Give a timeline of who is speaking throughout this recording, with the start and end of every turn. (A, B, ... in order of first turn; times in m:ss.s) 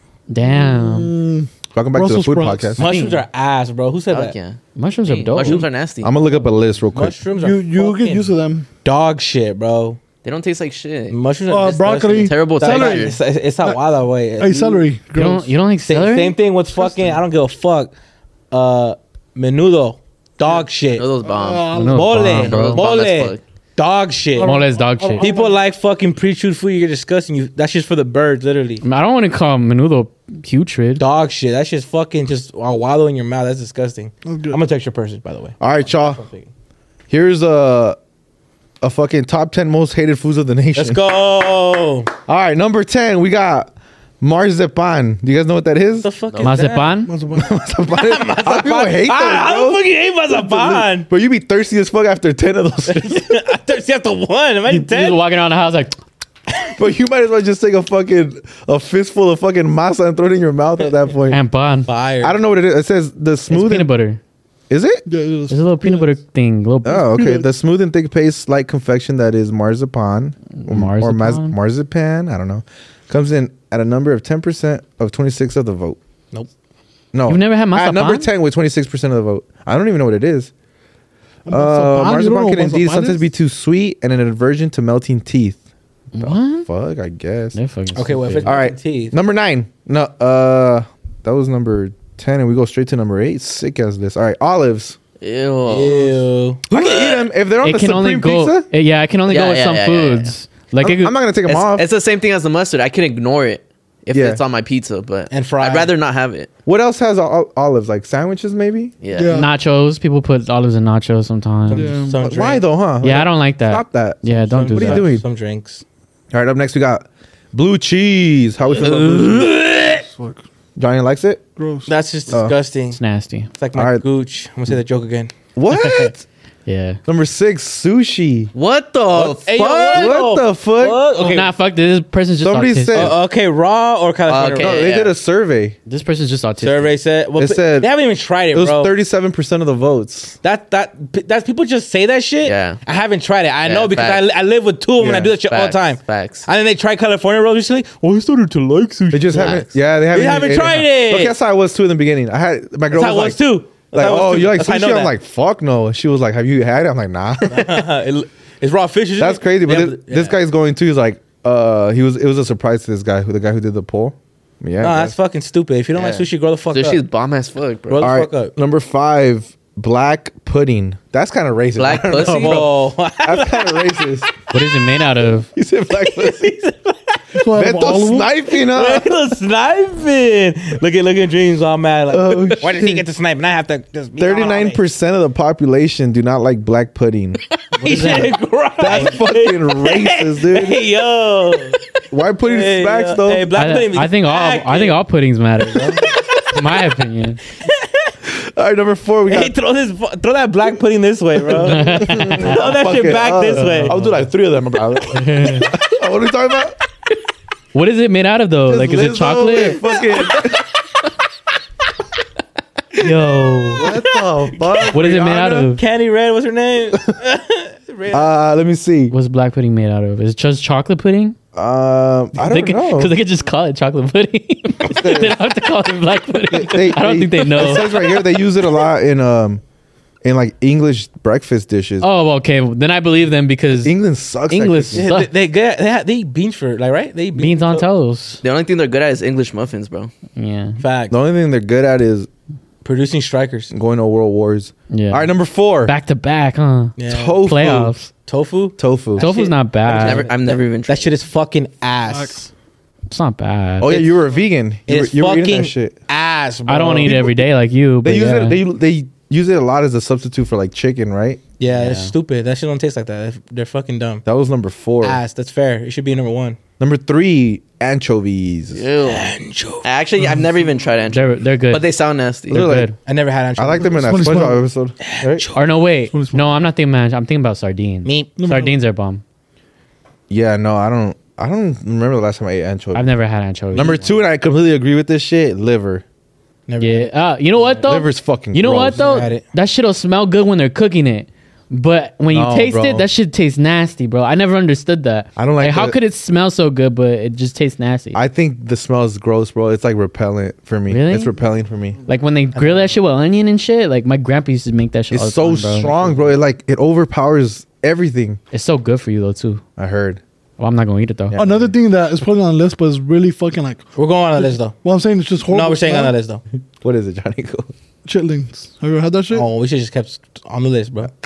0:00.3-0:01.1 A
0:00.4-0:02.8 B
0:01.7-0:02.8 C
0:02.8-0:03.2 A
0:02.8-0:04.4 D
0:04.1-0:06.1 E
0:04.8-0:05.7 A
0:06.0-0:07.2 C
0:06.9-0:08.3 D
0:07.4-0:08.7 B
0:08.8-0:10.0 D
0:10.2-0:11.2 E
0:11.1-0:14.9 D
0:11.5-0:13.8 B
0:12.1-0:13.2 E
0:14.4-0:15.5 B
0:15.2-0:16.4 A
0:15.9-0:17.9 D
0:16.8-0:17.2 B
0:18.5-0:21.1 D
0:20.9-0:23.4 E
0:21.2-0:22.2 B
0:21.7-0:22.9 A
0:21.9-0:24.6 D
0:24.4-0:25.6 B
0:24.4-0:25.3 A
0:25.2-0:28.8 D
0:28.8-0:31.0 A
0:31.0-0:36.5 D
0:34.2-0:34.6 B
0:35.6-0:36.2 C
0:37.1-0:38.0 C
0:38.8-0:41.0 C
0:40.8-0:42.1 D
0:42.3-0:46.1 C
0:46.0-0:47.0 D
0:46.3-0:46.6 E
0:46.4-0:47.1 A
0:47.0-0:47.6 B
0:47.3-0:53.4 C
0:47.9-0:51.1 D
0:52.9-0:55.2 D
0:54.7-0:56.0 A
0:56.8-1:01.4 C
1:01.3-1:01.9 A
1:01.8-1:02.4 D
1:02.2-1:03.9 C
1:03.5-1:04.2 A
1:04.7-1:05.0 C
1:05.1-1:06.2 B
1:05.5-1:07.2 A
1:06.8-1:16.0 C
1:07.1-1:07.5 B
1:10.6-1:11.6 A
1:17.1-1:20.5 C
1:17.3-1:18.3 A
1:21.5-1:23.3 B
1:21.5-1:25.6 C
1:26.1-1:26.7 A
1:26.2-1:27.6 C
1:27.5-1:28.6 A
1:27.9-1:29.1 D
1:28.4-1:35.0 C
1:35.2-1:37.3 E
1:35.7-1:36.7 D
1:36.7-1:38.7 C
1:37.6-1:41.2 A
1:39.3-1:40.3 E
1:40.8-1:41.9 C
1:41.5-1:46.5 E
1:44.1-1:44.4 C
1:45.3-1:45.9 D
1:46.7-1:48.9 C
1:49.0-1:49.4 E
1:49.1-1:49.5 B
1:49.3-1:51.9 A
1:51.7-1:52.6 D
1:51.7-1:52.2 B
1:52.2-1:55.3 C
1:53.0-1:55.1 A
1:54.5-1:55.8 D
1:56.3-1:59.5 C
1:58.7-1:59.8 E
1:58.8-1:59.9 D
1:59.9-2:00.4 B
2:00.8-2:01.4 C
2:01.6-2:01.9 B
2:01.9-2:03.0 D
2:02.3-2:02.6 C
2:02.9-2:03.5 A
2:03.6-2:05.3 D
2:03.8-2:04.0 C
2:05.6-2:06.2 C
2:06.7-2:07.0 A
2:07.1-2:08.5 C
2:08.5-2:10.2 E
2:09.1-2:11.5 D
2:09.9-2:11.0 C
2:11.2-2:13.1 A
2:12.4-2:13.2 C
2:12.9-2:14.9 D
2:14.3-2:15.1 E
2:14.6-2:15.8 C
2:15.9-2:17.0 A
2:16.6-2:18.9 D
2:17.4-2:18.0 C
2:18.5-2:20.4 C
2:20.4-2:31.3 D
2:22.4-2:22.8 E
2:23.6-2:24.2 E
2:25.0-2:25.3 C
2:25.0-2:26.5 E
2:29.1-2:37.8 C
2:29.4-2:29.6 E
2:32.9-2:35.1 D
2:37.5-2:40.4 D
2:39.2-2:45.2 C
2:44.8-2:47.0 D
2:45.9-2:48.1 E
2:47.9-2:48.5 D
2:48.0-2:54.3 C
2:51.8-2:52.7 E
2:52.1-2:54.1 D
2:54.5-2:55.5 A
2:55.6-2:56.5 C
2:56.0-2:57.2 D
2:57.4-2:58.3 B
2:57.5-2:59.2 C
2:58.5-3:04.8 D
3:02.1-3:03.1 C
3:04.2-3:07.4 C
3:07.8-3:08.4 A
3:07.8-3:11.8 D
3:08.8-3:10.9 C
3:12.1-3:13.5 C
3:12.4-3:15.0 D
3:13.6-3:17.4 A
3:15.8-3:16.9 D
3:17.6-3:18.1 D
3:18.3-3:19.6 C
3:19.3-3:24.0 D
3:21.6-3:22.6 A
3:21.7-3:26.8 C
3:23.5-3:24.2 A
3:25.1-3:25.7 A
3:27.7-3:29.8 A
3:28.7-3:30.6 C
3:33.0-3:33.9 A
3:33.8-3:35.7 C
3:33.8-3:34.7 D
3:34.8-3:35.8 A
3:35.7-3:38.3 D
3:38.1-3:39.2 C
3:39.1-3:41.4 A
3:41.5-3:43.2 C
3:42.4-3:48.3 A
3:44.9-3:45.4 C
3:46.5-3:49.6 C
3:50.2-3:52.1 C
3:52.0-3:54.0 A
3:53.7-3:55.1 C
3:54.5-3:55.3 A
3:54.9-3:57.9 D
3:57.4-3:58.4 A
3:58.4-4:00.1 E
4:00.4-4:00.8 A
4:00.8-4:01.2 D
4:01.1-4:02.3 C
4:02.8-4:03.7 D
4:03.7-4:05.9 C
4:04.9-4:05.3 A
4:05.8-4:08.1 A
4:07.0-4:07.4 D
4:07.1-4:07.9 C
4:08.2-4:12.4 D
4:08.8-4:09.3 C
4:09.2-4:10.3 A
4:09.9-4:11.2 E
4:12.0-4:12.5 B
4:13.1-4:14.2 A
4:13.8-4:16.0 C
4:14.9-4:17.2 D
4:16.7-4:18.6 A
4:17.0-4:17.4 C
4:18.0-4:21.4 C
4:21.6-4:24.2 D
4:21.7-4:22.1 A
4:24.2-4:25.2 C
4:25.0-4:26.6 D
4:26.8-4:28.8 C
4:28.7-4:29.3 E
4:29.0-4:29.9 D
4:29.8-4:32.6 E
4:31.1-4:31.9 A
4:32.5-4:33.0 C
4:32.5-4:33.0 A
4:33.0-4:34.5 D
4:33.6-4:35.5 C
4:33.8-4:34.6 B
4:35.0-4:35.6 D
4:35.6-4:39.2 A
4:36.1-4:36.6 B
4:38.0-4:38.4 D
4:38.4-4:38.7 B
4:40.3-4:43.1 C
4:42.9-4:44.2 A
4:43.7-4:46.0 C
4:46.7-4:47.9 D
4:46.8-4:58.2 A
4:47.8-4:49.0 C
4:48.9-4:49.4 D
4:52.3-4:53.1 C
4:55.4-4:56.0 C
4:58.1-5:02.0 C
5:00.9-5:01.3 A
5:02.1-5:06.3 A
5:05.1-5:08.4 C
5:08.5-5:09.6 A
5:09.8-5:10.2 C
5:10.6-5:11.7 A
5:11.3-5:11.6 C
5:11.4-5:13.9 B
5:14.0-5:14.8 D
5:14.8-5:16.2 B
5:15.5-5:16.4 D
5:16.8-5:17.7 C
5:18.0-5:19.5 B
5:19.3-5:21.1 D